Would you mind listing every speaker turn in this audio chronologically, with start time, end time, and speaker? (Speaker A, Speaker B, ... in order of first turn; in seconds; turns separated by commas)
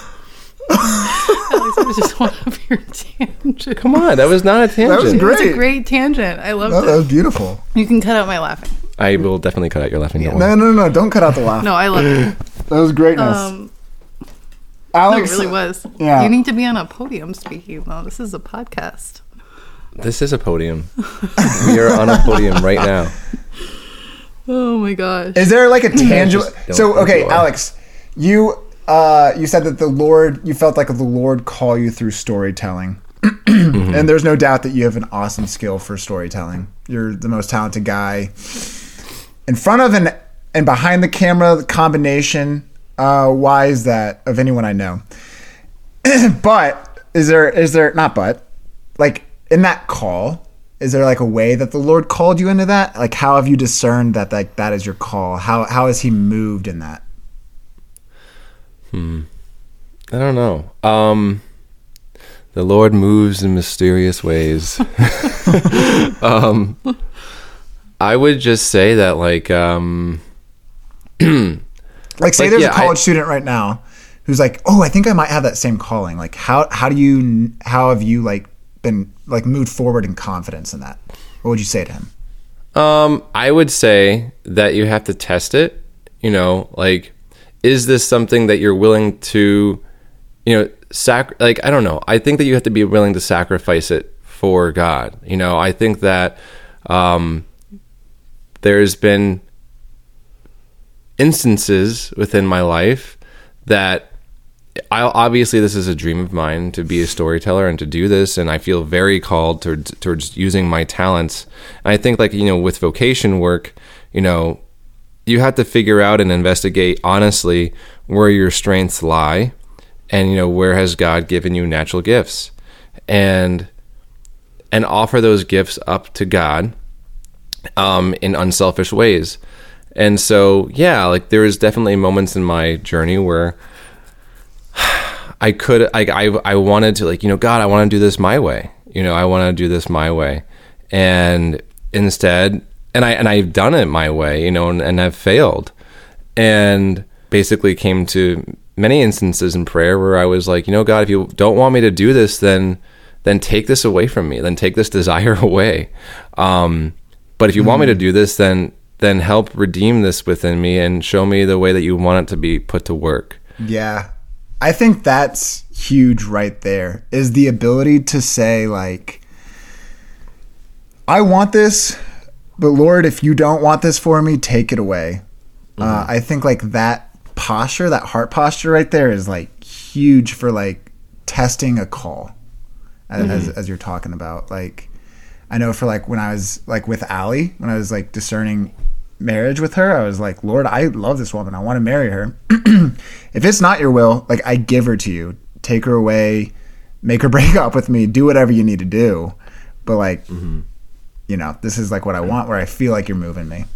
Speaker A: 1.1-3.8, Speaker B: 3.8-5.3, Speaker C: 4.8-5.7, Speaker A: 4.9-7.0, Speaker C: 6.6-7.6, Speaker A: 7.7-8.7, Speaker B: 9.0-10.6, Speaker C: 10.2-13.5, Speaker A: 11.6-12.3, Speaker A: 13.2-13.7, Speaker C: 14.9-16.3, Speaker A: 15.1-19.2, Speaker B: 20.0-23.1, Speaker C: 21.4-22.1, Speaker A: 24.5-25.5, Speaker C: 25.3-38.8, Speaker B: 25.9-27.5, Speaker B: 33.7-34.0, Speaker C: 39.5-45.0, Speaker C: 46.0-48.4, Speaker C: 49.0-57.0, Speaker B: 58.9-59.3, Speaker B: 60.1-61.4, Speaker B: 62.5-66.9, Speaker B: 68.0-70.2, Speaker B: 71.2-71.6, Speaker C: 72.2-82.1, Speaker B: 72.3-73.0, Speaker B: 82.7-89.8, Speaker B: 90.4-97.4, Speaker B: 98.6-99.4, Speaker B: 101.2-104.1, Speaker B: 104.9-114.6, Speaker B: 115.2-119.5, Speaker B: 120.1-122.5, Speaker B: 123.1-123.7, Speaker B: 124.7-126.7, Speaker B: 127.8-129.4, Speaker B: 129.9-133.6, Speaker B: 134.7-145.7, Speaker B: 146.3-163.4, Speaker C: 157.6-158.0, Speaker C: 163.6-164.1, Speaker C: 164.6-169.2, Speaker C: 171.1-172.0, Speaker C: 172.6-175.2, Speaker B: 175.8-176.1, Speaker C: 175.8-182.3, Speaker C: 183.1-184.9, Speaker B: 183.2-183.5, Speaker C: 185.5-200.2, Speaker C: 201.3-203.7